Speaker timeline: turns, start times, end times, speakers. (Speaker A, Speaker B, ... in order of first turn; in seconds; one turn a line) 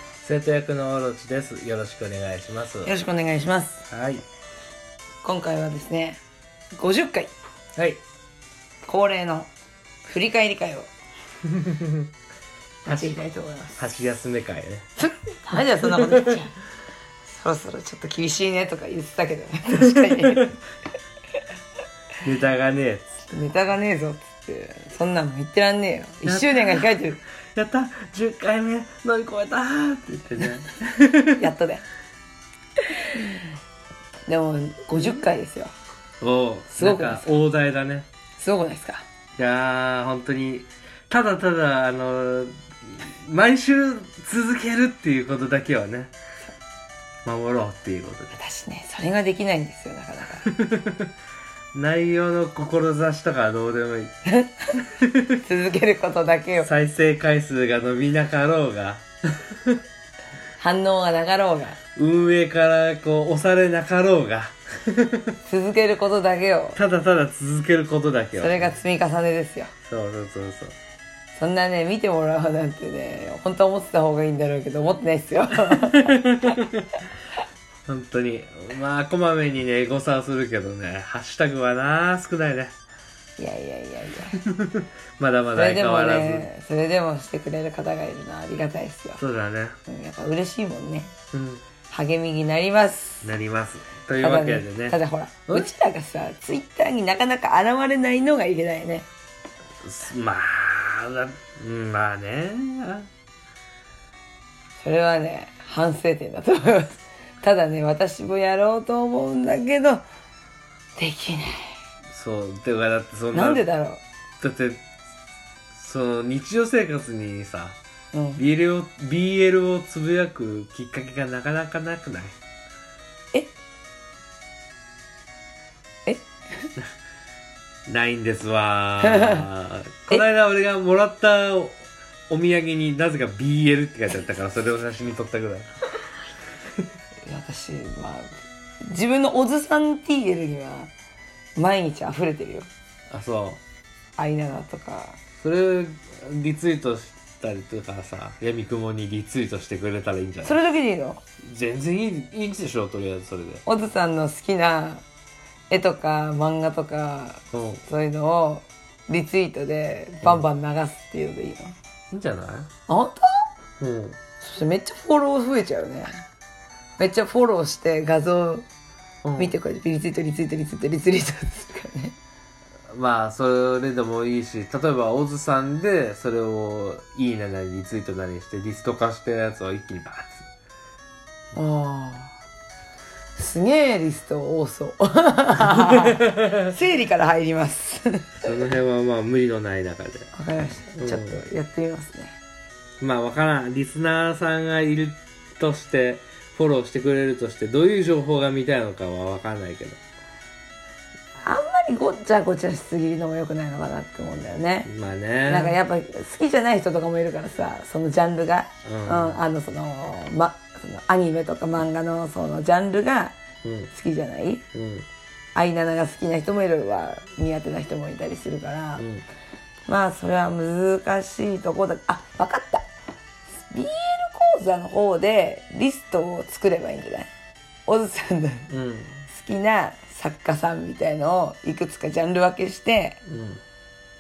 Speaker A: 0.2-2.9
Speaker B: 2.9-3.8
Speaker A: 3.9-4.2
Speaker B: 5.2-6.2
Speaker B: 6.8-7.3
Speaker A: 7.8-8.0
Speaker B: 8.8-9.5
Speaker B: 10.1-10.9
Speaker A: 11.5-12.1
Speaker B: 12.8-13.8
Speaker A: 12.9-13.2
Speaker A: 13.8-14.9
Speaker B: 15.0-16.5
Speaker A: 16.0-16.2
Speaker B: 17.2-20.5
Speaker A: 19.9-20.5
Speaker A: 22.2-23.1
Speaker B: 23.3-27.2
Speaker A: 26.2-31.4
Speaker B: 31.4-31.9
Speaker B: 34.3-35.7
Speaker A: 36.2-38.1
Speaker B: 36.7-37.4
Speaker B: 38.4-39.0
Speaker A: 39.4-46.1
Speaker A: 47.2-48.4
Speaker B: 48.3-50.5
Speaker A: 50.4-51.1
Speaker A: 51.7-54.1
Speaker B: 54.3-54.9
Speaker A: 54.9-55.4
Speaker B: 55.4-56.7
Speaker A: 56.6-59.8
Speaker B: 60.6-61.8
Speaker A: 62.0-65.3
Speaker B: 65.5-66.8
Speaker A: 66.8-68.8
Speaker B: 68.4-69.7
Speaker A: 69.8-70.8
Speaker B: 71.3-76.2
Speaker A: 75.8-76.9
Speaker A: 77.9-82.7
Speaker B: 83.4-84.4
Speaker A: 84.3-86.5
Speaker B: 85.5-89.2
Speaker A: 89.2-89.8
Speaker B: 89.9-91.1
Speaker A: 91.3-91.6
Speaker B: 91.9-93.3
Speaker A: 93.2-95.0
Speaker B: 94.2-99.1
Speaker A: 99.8-103.1
Speaker B: 104.8-110.0
Speaker B: 111.0-111.8
Speaker A: 112.1-113.6
Speaker B: 113.3-114.0
Speaker A: 114.4-114.8
Speaker A: 115.7-117.8
Speaker B: 118.1-118.4
Speaker A: 118.4-122.4
Speaker B: 126.1-126.7
Speaker A: 127.9-135.7
Speaker B: 129.0-129.4
Speaker B: 137.2-138.3
Speaker B: 138.9-140.9
Speaker B: 141.6-142.7
Speaker A: 143.1-143.6
Speaker B: 144.2-145.2
Speaker A: 145.4-150.6
Speaker B: 150.4-151.2
Speaker A: 151.4-153.6
Speaker B: 153.7-155.0
Speaker B: 155.7-161.8
Speaker A: 157.5-157.8
Speaker A: 162.1-162.7
Speaker B: 162.9-163.5
Speaker A: 163.8-164.2
Speaker B: 164.4-166.2
Speaker B: 167.0-168.7
Speaker A: 169.2-169.6
Speaker B: 169.4-172.2
Speaker A: 172.9-180.5
Speaker B: 181.5-182.3
Speaker B: 183.4-188.5
Speaker A: 185.9-186.5
Speaker A: 188.4-190.3
Speaker B: 190.3-192.4
Speaker A: 191.0-191.4
Speaker A: 193.0-200.0
Speaker B: 201.4-204.9
Speaker A: 204.9-205.8
Speaker B: 205.5-213.3
Speaker A: 208.8-209.4
Speaker A: 213.6-213.9
Speaker B: 213.9-214.6
Speaker A: 214.7-215.1
Speaker B: 215.6-219.1
Speaker A: 219.0-219.2
Speaker B: 219.9-222.9
Speaker B: 223.6-227.3
Speaker B: 227.9-228.7
Speaker A: 228.7-229.2
Speaker B: 229.3-233.2
Speaker A: 233.3-233.6